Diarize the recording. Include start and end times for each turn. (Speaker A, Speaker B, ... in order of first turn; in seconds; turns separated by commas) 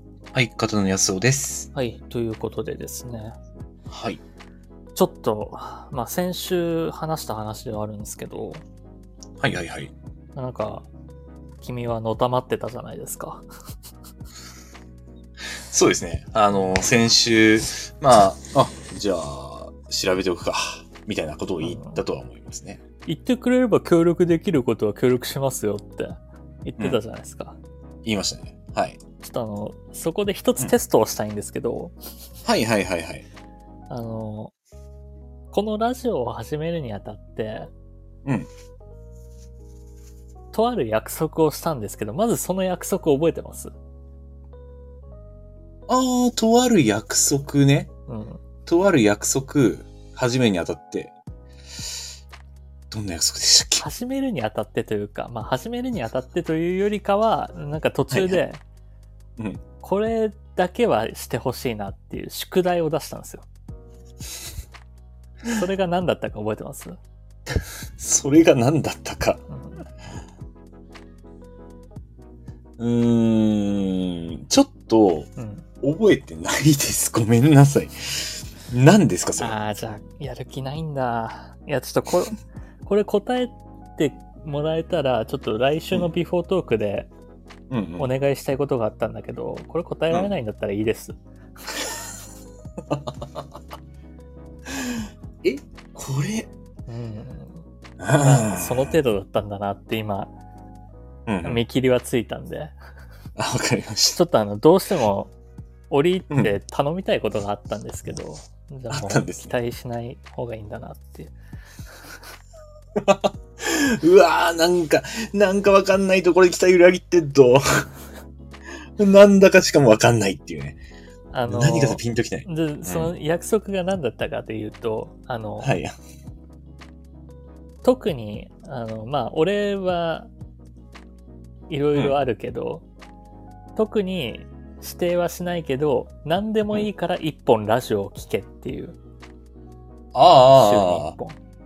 Speaker A: 0.3-1.7, Speaker B: 1.7-3.4, Speaker A: 3.9-4.2, Speaker B: 5.0-8.6, Speaker A: 9.4-9.9, Speaker B: 10.4-10.9, Speaker B: 11.6-13.4, Speaker A: 15.7-22.8, Speaker B: 21.6-22.0, Speaker B: 23.1-27.6, Speaker A: 28.1-29.0, Speaker B: 29.2-31.9, Speaker A: 32.5-33.3, Speaker B: 33.9-34.5, Speaker B: 35.5-37.7, Speaker B: 40.5-43.7, Speaker A: 45.9-47.9, Speaker B: 48.1-48.4, Speaker A: 48.7-51.1, Speaker A: 52.9-53.8, Speaker B: 53.8-58.6, Speaker A: 58.1-58.4, Speaker B: 59.8-63.5, Speaker B: 65.5-67.0, Speaker A: 67.5-69.4, Speaker B: 69.5-69.8, Speaker A: 72.8-75.3, Speaker B: 75.4-75.7, Speaker A: 75.8-79.6, Speaker B: 79.4-87.1, Speaker A: 87.7-88.1, Speaker B: 88.0-91.2, Speaker A: 92.9-93.4, Speaker A: 94.7-96.5, Speaker B: 96.9-97.6, Speaker A: 98.0-98.9, Speaker B: 98.2-100.3, Speaker A: 101.3-101.6, Speaker B: 101.4-102.7, Speaker A: 103.4-104.2, Speaker B: 104.2-105.3, Speaker B: 105.9-111.3, Speaker A: 108.9-109.5, Speaker A: 113.0-117.6, Speaker A: 119.0-120.8, Speaker B: 121.3-125.8, Speaker A: 121.5-123.1, Speaker A: 125.6-125.9, Speaker B: 127.8-130.3, Speaker B: 131.7-132.8, Speaker B: 133.8-139.0, Speaker A: 140.1-141.2, Speaker B: 140.5-141.4